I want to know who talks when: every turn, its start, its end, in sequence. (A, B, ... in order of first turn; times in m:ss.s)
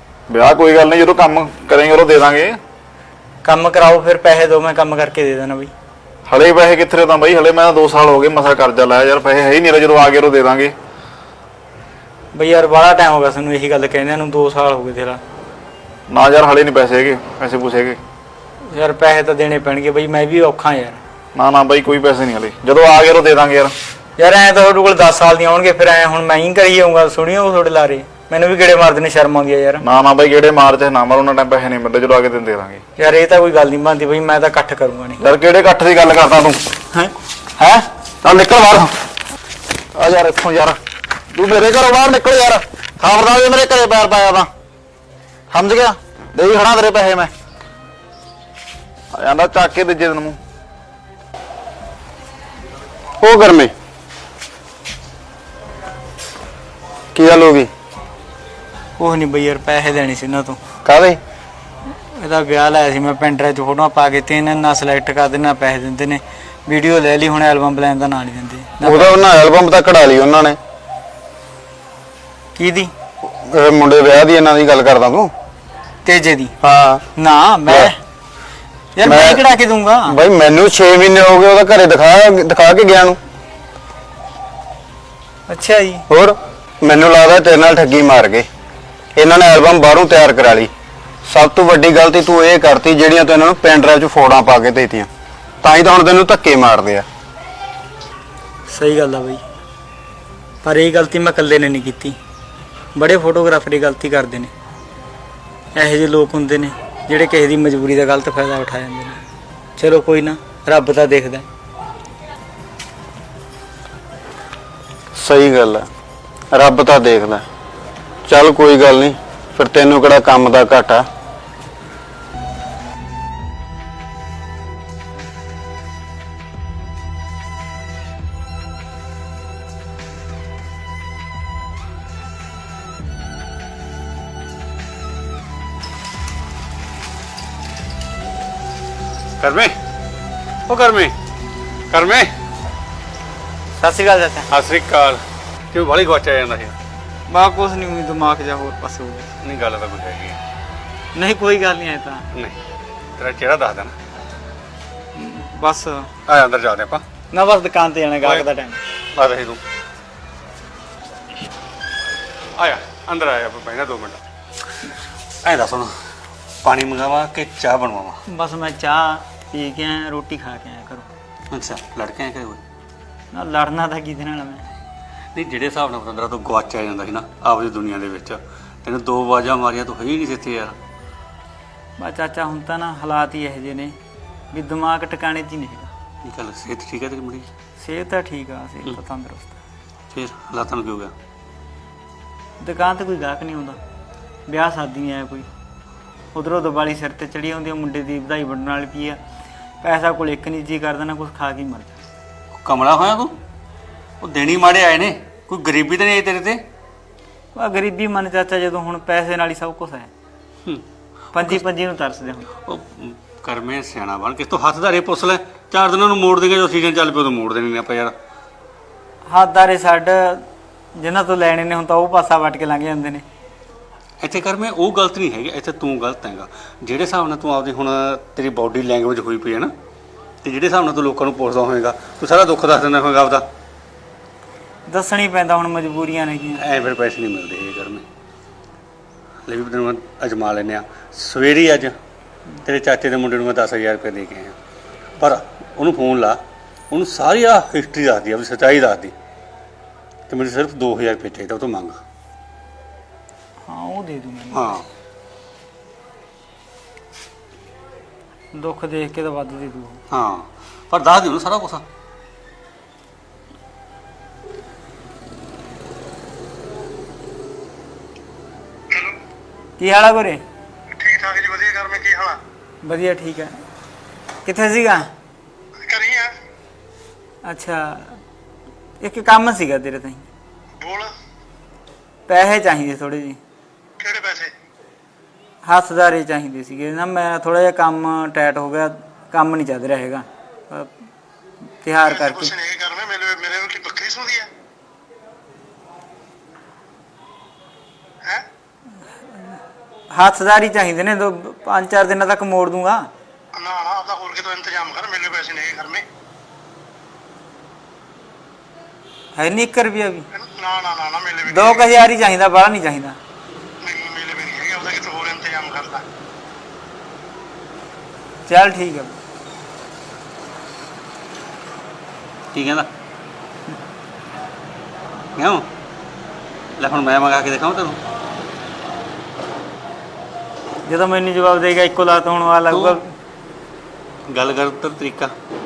0:00.3-0:02.6 A
0:03.4-0:05.7 B
0:06.3-0:10.8 A
0:12.3-0:15.2 B
0:16.1-0:18.0 A
0:18.7-0:21.0 B
0:21.4-0:23.7 A
0:24.2-0:29.8 B
0:29.8-0:32.8 A
0:33.0-0:35.2 B
0:35.2-0:36.6 A
0:37.6-0:38.9 A
0:40.0-0:40.8 A
0:41.3-0:44.5 A
0:45.5-0:47.3 A
0:49.1-0:50.4 A
0:53.2-0:53.7 C
0:57.2-0:57.7 C
0:59.0-1:00.6 B
1:00.8-1:01.2 C
1:01.9-1:09.2 B
1:08.8-1:10.6 C
1:12.6-1:12.9 B
1:13.2-1:15.3 C
1:16.0-1:16.6 B
1:16.6-1:17.0 C
1:17.2-1:18.0 B
1:19.0-1:20.2 B
1:19.0-1:19.4 C
1:20.1-1:23.2 C
1:25.5-1:26.0 B
1:26.1-1:28.5 C
1:29.2-1:30.7 C
1:31.3-1:35.1 C
1:35.6-1:37.1 C
1:38.7-1:39.4 B
1:40.6-1:42.2 B
1:43.0-1:44.5 B
1:45.8-1:49.2 B
1:49.8-1:51.5 B
1:55.2-1:55.9 C
1:56.5-1:57.4 C
1:58.3-2:01.1 C
2:19.4-2:19.8 D
2:20.7-2:21.2 D
2:21.9-2:22.3 D
2:23.8-2:24.5 B
2:24.5-2:25.2 D
2:25.7-2:26.7 D
2:27.3-2:29.3 B
2:29.4-2:30.4 D
2:31.2-2:32.2 B
2:33.2-2:33.9 D
2:35.2-2:36.1 B
2:36.3-2:37.0 D
2:37.3-2:38.8 B
2:38.2-2:38.5 D
2:39.2-2:39.6 D
2:42.6-2:44.2 D
2:45.4-2:45.9 D
2:46.6-2:48.2 D
2:48.3-2:51.1 B
2:51.5-2:52.6 D
2:53.3-2:54.6 B
2:55.4-3:00.8 D
3:02.0-3:04.0 B
3:04.5-3:05.9 B
3:06.2-3:07.5 D
3:07.8-3:09.6 B
3:10.1-3:11.1 D
3:12.6-3:13.8 B
3:14.5-3:15.5 B
3:16.3-3:19.2 B
3:19.8-3:22.0 B
3:22.6-3:23.4 D
3:24.2-3:26.6 D
3:27.6-3:30.1 B
3:31.3-3:32.5 B
3:31.4-3:31.6 D
3:32.7-3:38.1 D
3:39.3-3:40.4 B
3:41.0-3:43.2 B
3:44.2-3:49.7 D
3:50.4-3:53.4 D
3:54.9-3:56.6 B
3:56.6-3:58.0 D
3:59.5-4:01.9 D
4:02.6-4:04.6 D
4:05.2-4:06.4 D
4:06.9-4:09.1 D
4:10.3-4:12.0 D
4:13.7-4:14.7 B
4:14.5-4:14.8 D
4:18.5-4:20.0 B
4:20.1-4:21.8 D
4:29.8-4:30.4 B
4:30.9-4:32.4 E
4:32.8-4:33.6 B
4:34.4-4:35.1 B
4:35.8-4:36.3 E
4:37.4-4:38.2 B
4:39.0-4:40.3 B
4:40.8-4:41.1 E
4:42.3-4:43.4 B
4:44.0-4:44.5 E
4:45.6-4:50.9 B
4:51.8-4:52.5 B
4:52.0-4:54.5 E
5:00.1-5:03.1 B
5:03.6-5:06.0 E
5:09.4-5:10.3 B
5:10.3-5:11.8 E
5:11.5-5:13.2 B
5:13.8-5:16.0 E
5:18.5-5:19.2 B
5:22.5-5:22.9 D
5:25.4-5:25.7 D
5:26.8-5:28.0 D
5:30.9-5:33.1 B
5:32.7-5:33.0 D
5:34.3-5:35.3 D